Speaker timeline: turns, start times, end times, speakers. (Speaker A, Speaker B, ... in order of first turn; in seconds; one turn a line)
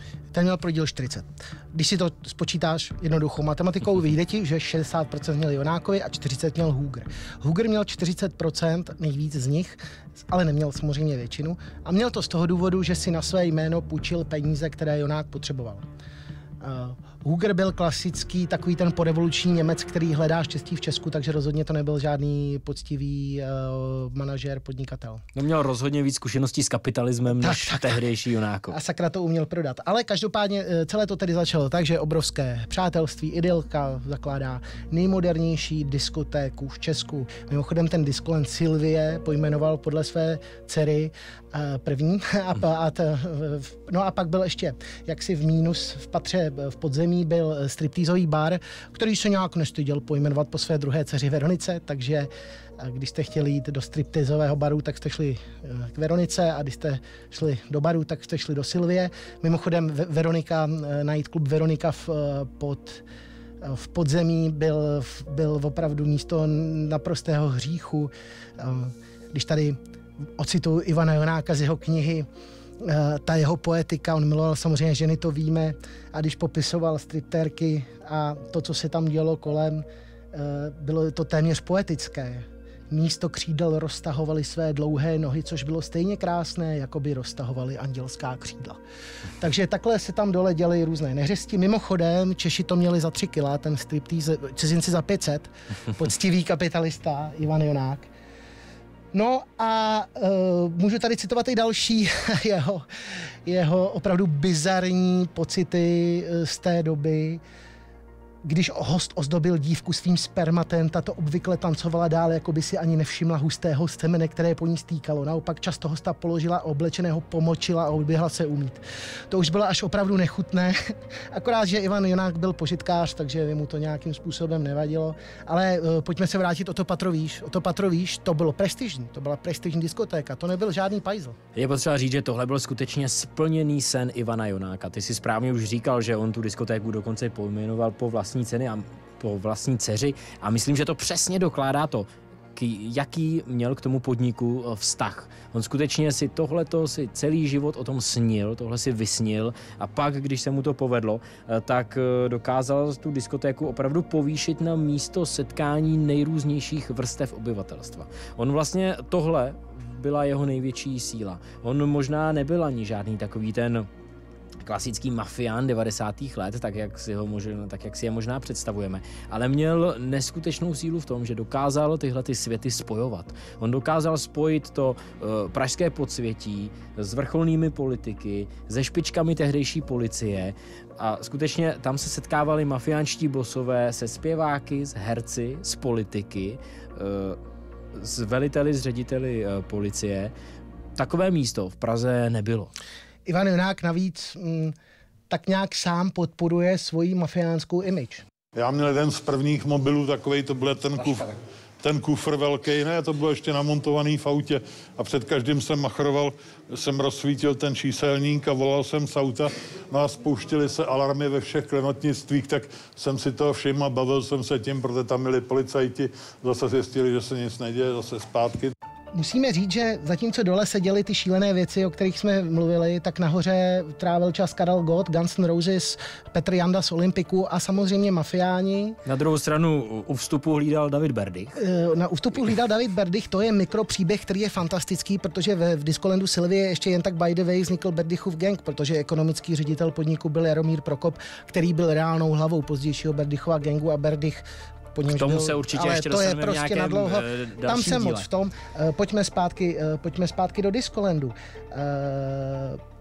Speaker A: 0.3-15.8
Speaker A: 16.6-25.2
Speaker B: 25.4-28.8
Speaker A: 27.4-28.0
Speaker A: 28.7-63.0
Speaker A: 63.6-69.8
Speaker A: 70.4-72.3
Speaker A: 72.8-88.8
Speaker A: 89.4-98.1
Speaker A: 99.1-107.4
Speaker A: 108.5-131.4
Speaker B: 131.6-163.9
Speaker B: 164.6-187.4
Speaker B: 187.9-190.3
Speaker B: 191.0-192.7
Speaker A: 193.3-194.8
Speaker A: 195.3-198.2
Speaker C: 198.6-218.7
Speaker A: 219.1-229.0
Speaker B: 229.1-231.6
Speaker A: 231.6-252.8
Speaker B: 245.1-248.3